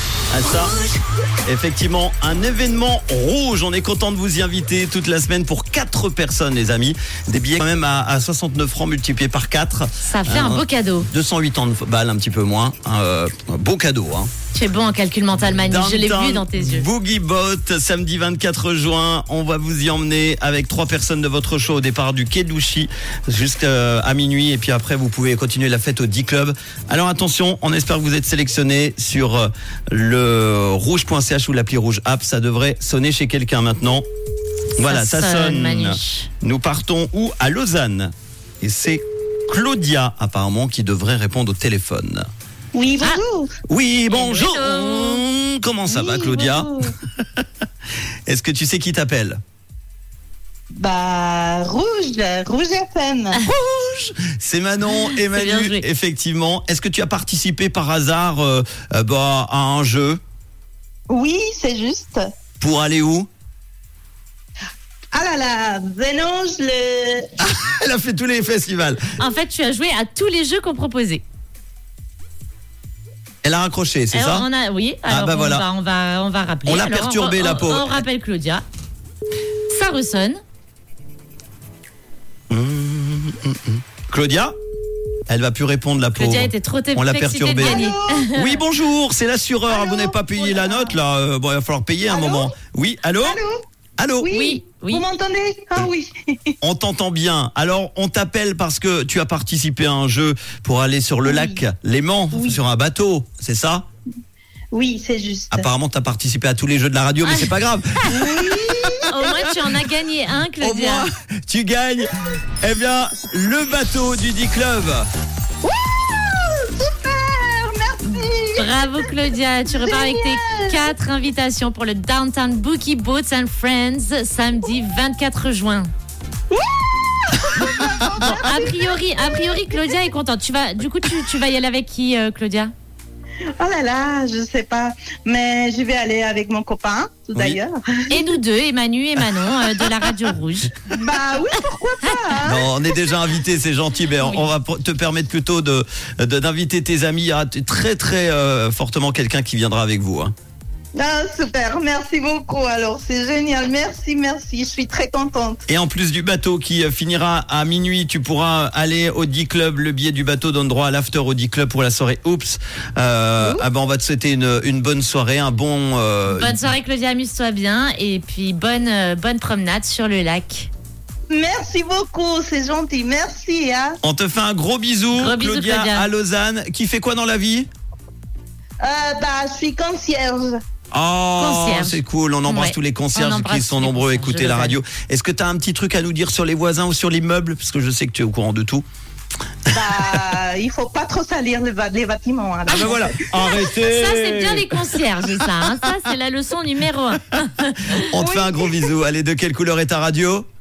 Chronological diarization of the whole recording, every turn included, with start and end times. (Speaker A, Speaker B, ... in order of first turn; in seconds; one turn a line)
Speaker A: 0.3-0.8
Speaker A: 1.4-14.3
Speaker B: 10.0-11.1
Speaker B: 14.5-16.9
Speaker A: 15.7-34.0
Speaker A: 34.8-42.3
Speaker B: 34.9-36.3
Speaker C: 42.7-43.5
Speaker A: 43.7-47.5
Speaker B: 44.1-45.2
Speaker C: 45.9-46.9
Speaker A: 48.3-49.4
Speaker C: 50.7-53.4
Speaker A: 53.5-60.2
Speaker B: 54.9-55.8
Speaker C: 61.1-62.3
Speaker A: 62.6-63.3
Speaker C: 65.1-67.3
Speaker A: 67.4-69.0
Speaker B: 69.2-71.2
Speaker A: 73.4-74.5
Speaker B: 74.1-78.7
Speaker A: 75.1-75.7
Speaker A: 76.7-78.0
Speaker B: 79.7-80.4
Speaker A: 82.5-84.5
Speaker A: 85.3-93.4
Speaker B: 86.2-88.6
Speaker C: 87.6-88.3
Speaker C: 89.7-91.0
Speaker C: 92.1-92.5
Speaker C: 93.2-93.6
Speaker A: 94.0-94.3
Speaker C: 94.2-96.5
Speaker B: 94.3-95.0
Speaker A: 96.6-103.8
Speaker C: 101.2-101.6
Speaker C: 102.3-102.6
Speaker C: 104.7-105.7
Speaker A: 105.5-109.7
Speaker B: 107.2-107.5
Speaker C: 108.1-109.0
Speaker B: 109.1-111.1
Speaker A: 110.6-115.1
Speaker C: 115.6-119.0
Speaker B: 118.1-125.9
Speaker C: 119.7-120.9
Speaker C: 126.5-129.9
Speaker B: 128.2-132.7
Speaker C: 133.6-138.3
Speaker B: 138.1-140.8
Speaker C: 140.9-142.7
Speaker A: 142.4-150.3
Speaker B: 144.2-144.5
Speaker C: 150.9-155.6
Speaker A: 155.7-166.6
Speaker C: 163.4-163.7
Speaker B: 166.3-170.7
Speaker C: 171.3-174.0
Speaker A: 174.0-177.7
Speaker B: 175.2-176.1
Speaker C: 178.8-180.6
Speaker A: 180.9-188.8
Speaker B: 181.4-184.8
Speaker C: 189.7-193.7
Speaker A: 192.7-195.9
Speaker B: 193.8-198.1
Speaker A: 198.0-200.5
Speaker C: 198.1-198.9